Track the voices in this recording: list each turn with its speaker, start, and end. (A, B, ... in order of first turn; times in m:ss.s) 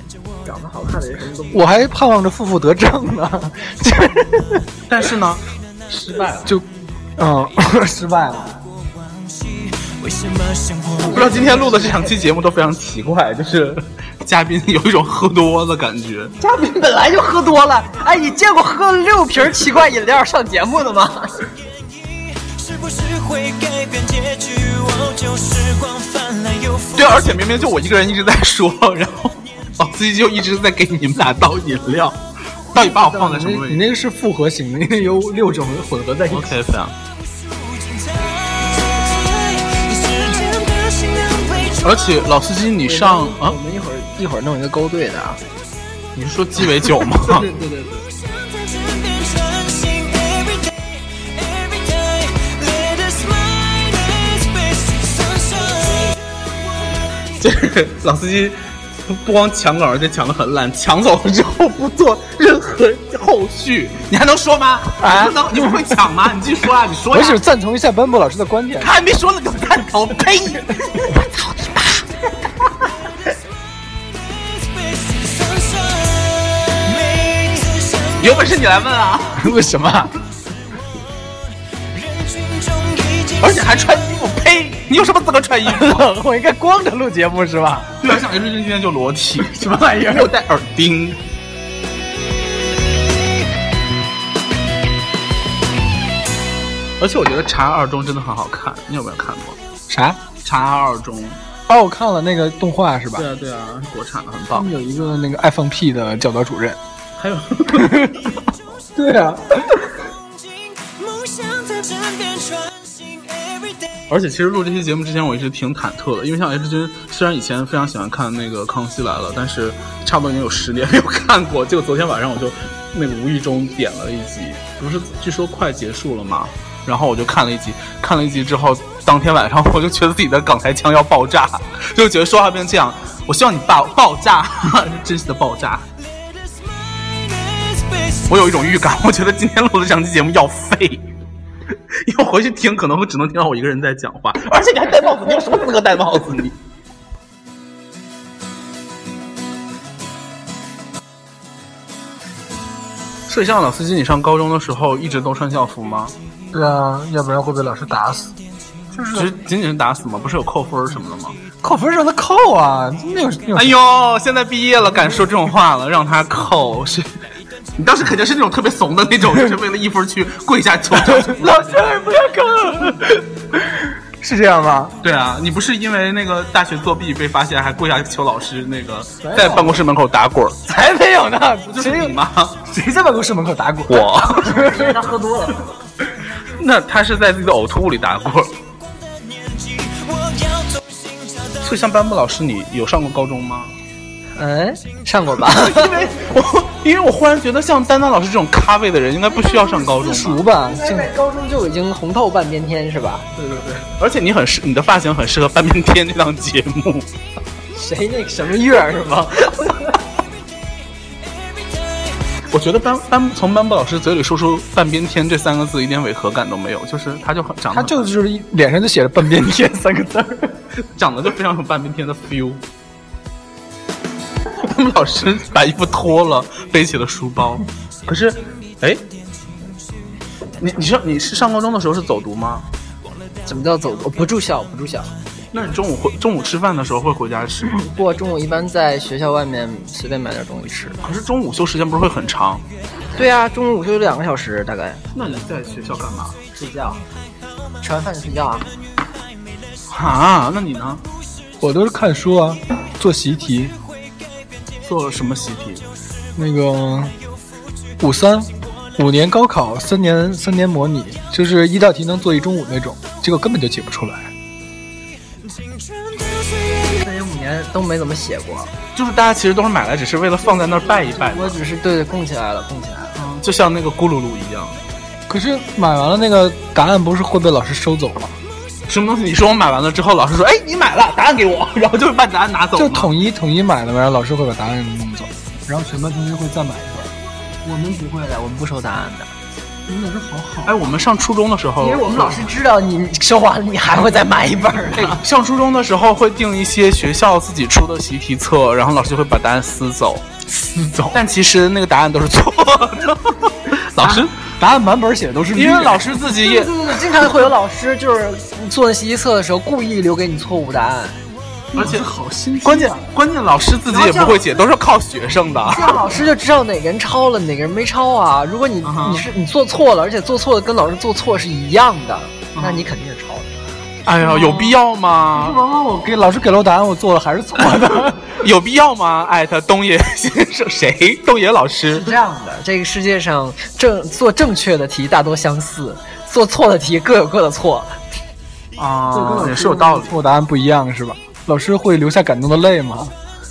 0:00.4-0:01.7 A
0:01.5-0:04.7 B
0:04.9-0:06.4 C
0:06.4-0:08.6 B
0:08.8-0:11.3 D
0:11.0-0:16.3 C
0:11.1-0:12.1 A
0:16.4-0:21.4 A
0:21.8-0:27.5 D
0:27.0-0:33.8 C
0:32.8-0:36.6 B
0:36.3-0:37.0 C
0:37.2-0:42.3 D
0:41.7-0:43.6 C
0:42.8-0:45.4 A
0:46.2-0:47.6 C
0:47.6-0:47.9 A
0:47.9-0:57.4 D
0:57.4-1:07.4 C
1:05.0-1:05.9 B
1:07.1-1:08.9 B
1:08.8-1:11.1 C
1:14.0-1:18.7 D
1:18.2-1:19.6 C
1:19.4-1:20.1 B
1:21.9-1:24.2 D
1:23.4-1:26.1 C
1:25.6-1:28.0 B
1:28.0-1:31.2 C
1:29.4-1:30.3 B
1:37.0-1:39.6 C
1:39.9-1:40.2 B
1:40.4-1:41.4 C
1:41.7-1:43.3 B
1:43.2-1:44.7 C
1:44.5-1:46.8 B
1:47.2-1:48.4 C
1:47.7-1:48.2 B
1:49.0-1:49.9 B
1:50.0-1:53.9 D
1:54.1-2:15.9 C
2:16.3-2:18.4 D
2:18.3-2:21.0 C
2:22.0-2:26.6 C
2:33.3-2:36.2 C
2:36.5-2:38.4 B
2:38.9-2:39.3 B
2:39.1-2:41.4 C
2:41.6-2:43.8 B
2:43.5-2:47.1 C
2:47.8-2:52.0 C
2:50.9-2:55.0 B
2:55.0-3:00.6 C
2:59.2-2:59.8 B
3:00.7-3:05.2 B
3:01.7-3:02.6 C
3:03.9-3:04.7 C
3:04.4-3:05.6 A
3:06.6-3:08.6 C
3:08.8-3:11.7 D
3:11.6-3:13.8 C
3:14.4-3:16.1 A
3:15.5-3:20.4 C
3:19.7-3:21.1 B
3:20.5-3:23.3 A
3:23.4-3:27.1 C
3:27.7-3:30.0 A
3:31.2-3:32.2 D
3:32.5-3:38.0 C
3:37.7-3:40.6 B
3:40.8-3:42.6 C
3:44.6-3:49.0 C
3:50.6-3:52.7 C
3:53.5-3:55.1 A
3:55.5-3:57.8 C
3:57.7-4:01.0 A
4:01.0-4:02.6 C
4:03.2-4:05.0 A
4:05.1-4:06.4 C
4:06.5-4:07.0 A
4:07.8-4:08.7 A
4:09.9-4:11.0 C
4:11.6-4:13.8 B
4:14.8-4:15.8 C
4:16.4-4:17.2 B
4:18.0-4:24.3 B
4:25.4-4:27.0 D
4:26.9-4:28.7 A
4:29.0-4:31.6 C
4:30.4-4:33.2 A
4:33.2-4:34.8 C
4:35.3-4:38.4 B
4:38.9-4:43.1 C
4:42.8-4:47.1 B
4:47.6-4:49.3 A
4:49.9-4:50.9 B
4:50.6-4:52.5 C
4:51.8-4:55.2 A
4:54.9-5:04.4 C
5:04.0-5:06.1 B
5:05.5-5:07.0 C
5:06.3-5:11.2 A
5:11.7-5:13.0 B
5:11.8-5:12.1 C
5:12.6-5:16.1 C
5:13.9-5:14.5 A
5:15.6-5:23.5 A
5:18.8-5:19.3 C
5:22.6-5:22.9 C
5:24.0-5:25.6 C
5:24.2-5:24.8 B
5:25.4-5:28.4 B
5:28.4-5:32.2 C
5:31.9-5:38.0 A
5:38.8-5:40.1 C
5:39.1-5:43.1 B